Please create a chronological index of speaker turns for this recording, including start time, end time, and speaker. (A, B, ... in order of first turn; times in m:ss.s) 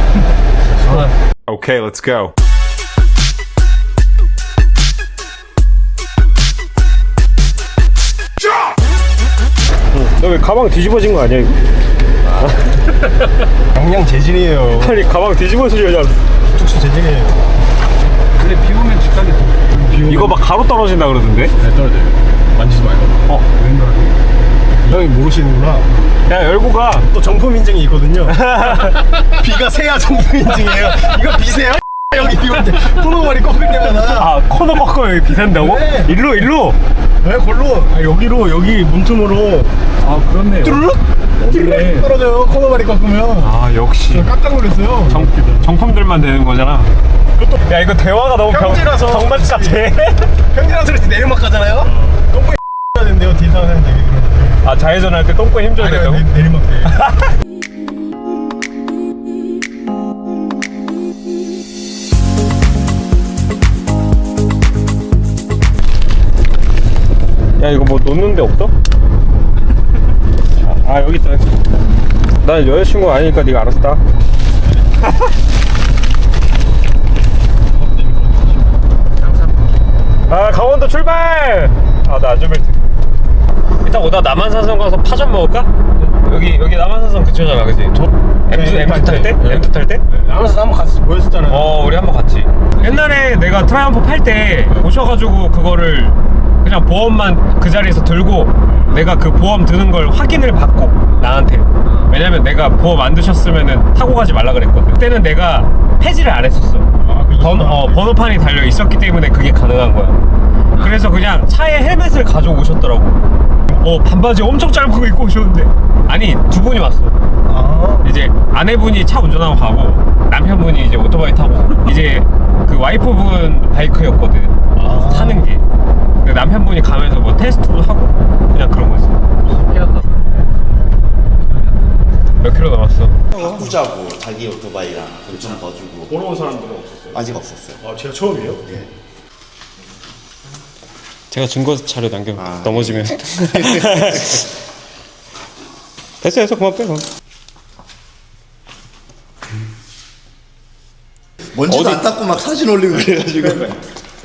0:00.9-0:02.3 A
0:10.0-0:11.6 A
0:12.4-0:13.1 A
0:13.7-0:15.0 B
0:14.7-0:16.2 A
0:16.5-0:17.4 B
0:18.4-0:20.2 C
0:19.9-0:20.4 B
0:20.0-0:21.5 A
0:21.6-0:23.2 B
0:23.5-0:24.2 C
0:24.8-0:25.9 B
0:26.2-0:27.1 A
0:27.1-0:34.3 B
0:28.3-0:29.2 A
0:34.0-0:36.8 A
0:35.5-0:36.2 B
0:37.2-0:39.8 B
0:40.0-0:40.9 C
0:40.6-0:43.5 B
0:41.4-0:42.1 C
0:43.4-0:44.3 A
0:44.1-0:45.3 B
0:45.1-0:46.9 A
0:47.4-0:47.7 B
0:47.6-0:50.3 A
0:48.5-0:49.8 B
0:50.5-0:54.6 B
0:54.6-0:56.3 A
0:55.8-0:56.9 B
0:56.9-0:57.3 A
1:07.6-1:08.7 A
1:10.6-1:11.5 A
1:12.4-1:14.0 A
1:14.6-1:14.8 B
1:17.7-1:18.8 B
1:19.2-1:19.8 C
1:20.3-1:22.8 A
1:23.8-1:30.0 A
1:28.5-1:31.9 B
1:31.5-1:46.9 A
1:41.8-1:42.1 C
1:47.0-1:48.0 B
1:47.4-1:50.2 A
1:50.8-1:57.2 A
1:57.4-1:58.1 B
1:58.0-2:05.6 A
2:04.7-2:05.4 B
2:06.2-2:09.2 A
2:09.5-2:10.4 C
2:11.4-2:12.0 C
2:12.4-2:13.3 A
2:13.3-2:16.2 D
2:16.1-2:17.2 B
2:17.1-2:17.8 D
2:17.8-2:18.7 B
2:21.3-2:24.5 A
2:22.4-2:24.4 D
2:26.2-2:27.0 A
2:31.5-2:33.8 D
2:31.7-2:32.1 A
2:33.4-2:33.8 B